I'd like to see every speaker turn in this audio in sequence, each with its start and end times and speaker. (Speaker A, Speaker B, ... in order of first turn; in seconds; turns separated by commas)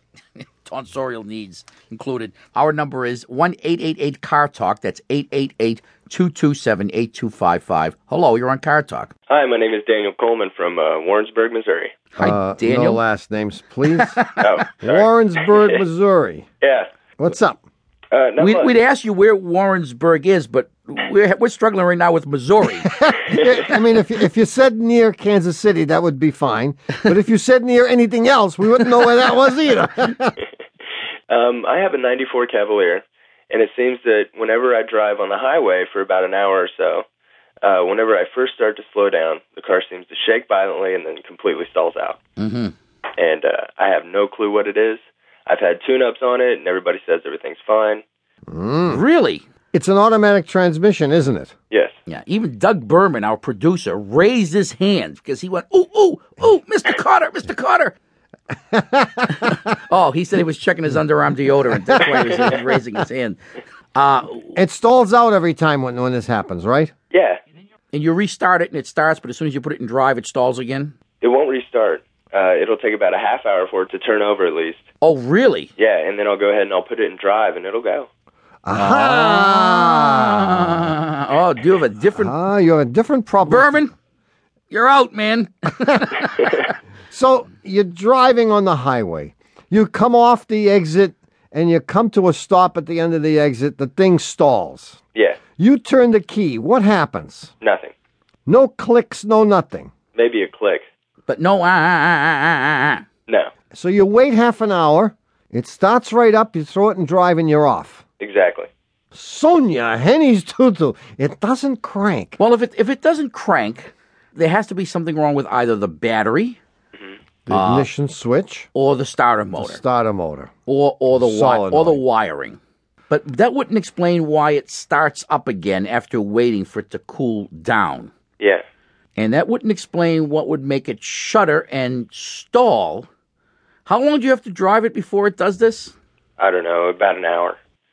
Speaker A: 0.4-9.1, Speaker B: 9.3-11.9, Speaker A: 12.2-13.0, Speaker C: 12.2-14.2, Speaker A: 14.2-14.4, Speaker B: 14.4-15.8, Speaker C: 14.7-16.4, Speaker B: 16.6-16.9, Speaker C: 17.2-17.6, Speaker B: 18.1-18.7, Speaker A: 18.4-22.9, Speaker C: 22.9-30.3, Speaker B: 23.3-23.6, Speaker B: 31.3-37.0, Speaker B: 37.6-42.2, Speaker A: 42.4-42.7, Speaker B: 43.2-48.0, Speaker C: 48.5-49.0, Speaker A: 48.9-49.4, Speaker C: 49.7-51.5, Speaker A: 52.1-58.0, Speaker C: 58.7-59.5, Speaker A: 59.4-63.4, Speaker A: 63.9-64.6, Speaker C: 64.5-66.9, Speaker B: 67.1-67.4, Speaker A: 67.9-70.9, Speaker B: 71.2-74.9, Speaker A: 75.0-75.7, Speaker B: 75.8-78.1, Speaker C: 78.6-80.9, Speaker A: 78.7-82.3, Speaker C: 82.2-83.8, Speaker A: 83.4-83.9, Speaker A: 84.7-86.7, Speaker C: 87.1-95.0, Speaker C: 95.6-97.5, Speaker B: 97.6-97.9, Speaker C: 98.5-99.9, Speaker B: 100.1-100.8, Speaker A: 101.3-103.0, Speaker C: 103.7-108.0, Speaker B: 108.2-108.7, Speaker C: 109.1-112.4, Speaker A: 112.4-116.6, Speaker C: 117.5-118.7, Speaker A: 117.5-117.9, Speaker A: 118.7-119.8, Speaker C: 119.6-120.5, Speaker A: 120.7-122.6, Speaker C: 121.2-122.0, Speaker A: 123.1-128.1, Speaker A: 129.2-133.1, Speaker A: 133.8-135.9, Speaker B: 136.4-137.6